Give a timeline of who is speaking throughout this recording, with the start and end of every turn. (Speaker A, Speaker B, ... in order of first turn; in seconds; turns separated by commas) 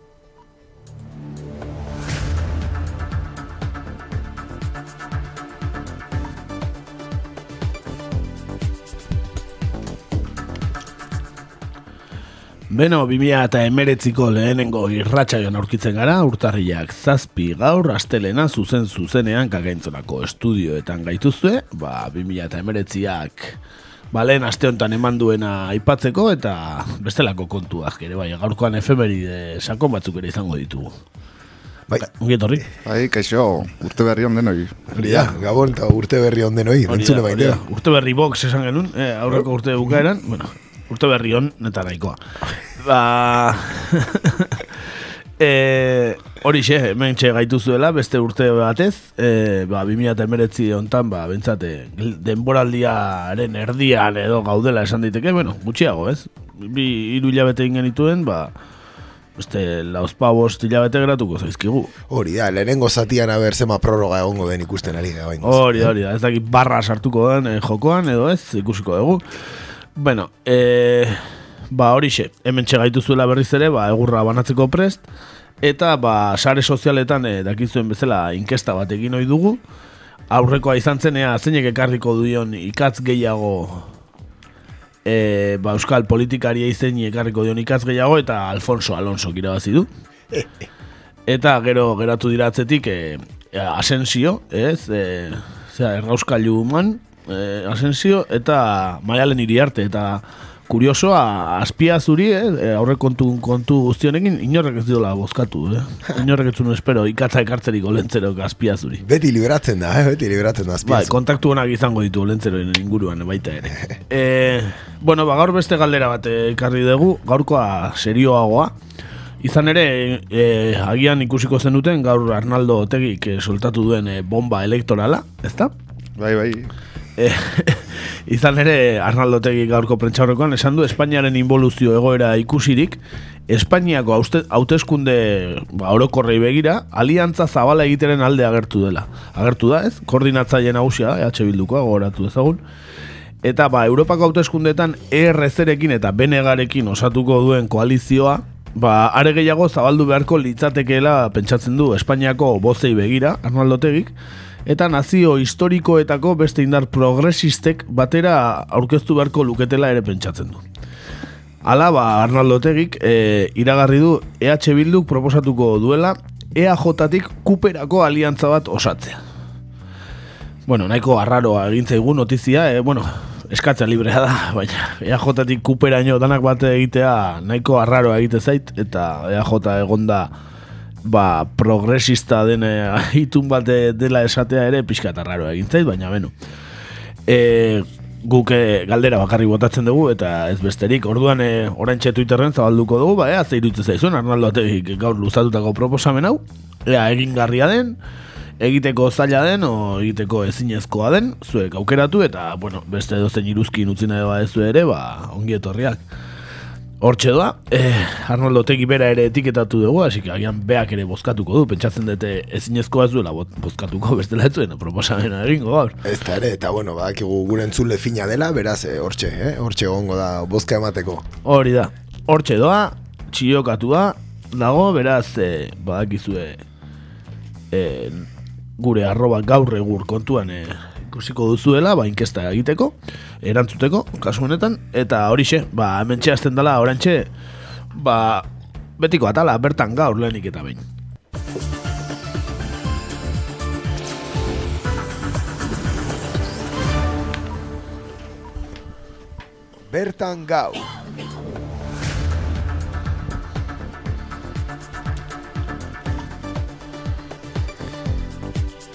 Speaker A: 12.7-23.6, Speaker A: 24.1-30.9, Speaker A: 32.1-32.6, Speaker B: 32.8-34.8, Speaker A: 34.9-35.3, Speaker C: 34.9-37.6, Speaker A: 36.9-42.2, Speaker A: 42.8-44.7, Speaker A: 45.4-58.5, Speaker A: 59.4-61.9, Speaker C: 62.1-65.9, Speaker A: 65.4-69.2, Speaker A: 70.0-71.2, Speaker A: 71.7-75.0, Speaker A: 75.6-79.6, Speaker A: 80.3-83.9, Speaker A: 85.0-89.9, Speaker A: 91.3-109.0, Speaker C: 109.0-111.2, Speaker A: 110.8-118.7, Speaker A: 119.4-125.7, Speaker B: 126.2-126.7, Speaker A: 127.2-142.6, Speaker A: 143.4-154.1, Speaker A: 154.7-160.6, Speaker A: 161.7-169.2, Speaker A: 170.7-180.3, Speaker A: 181.0-186.3, Speaker A: 187.3-198.0, Speaker A: 198.6-206.0, Speaker A: 207.0-216.0, Speaker C: 216.0-221.2, Speaker A: 221.4-226.6, Speaker A: 227.7-228.2, Speaker A: 228.8-237.3, Speaker A: 237.9-238.4, Speaker A: 239.0-240.8, Speaker C: 249.9-250.9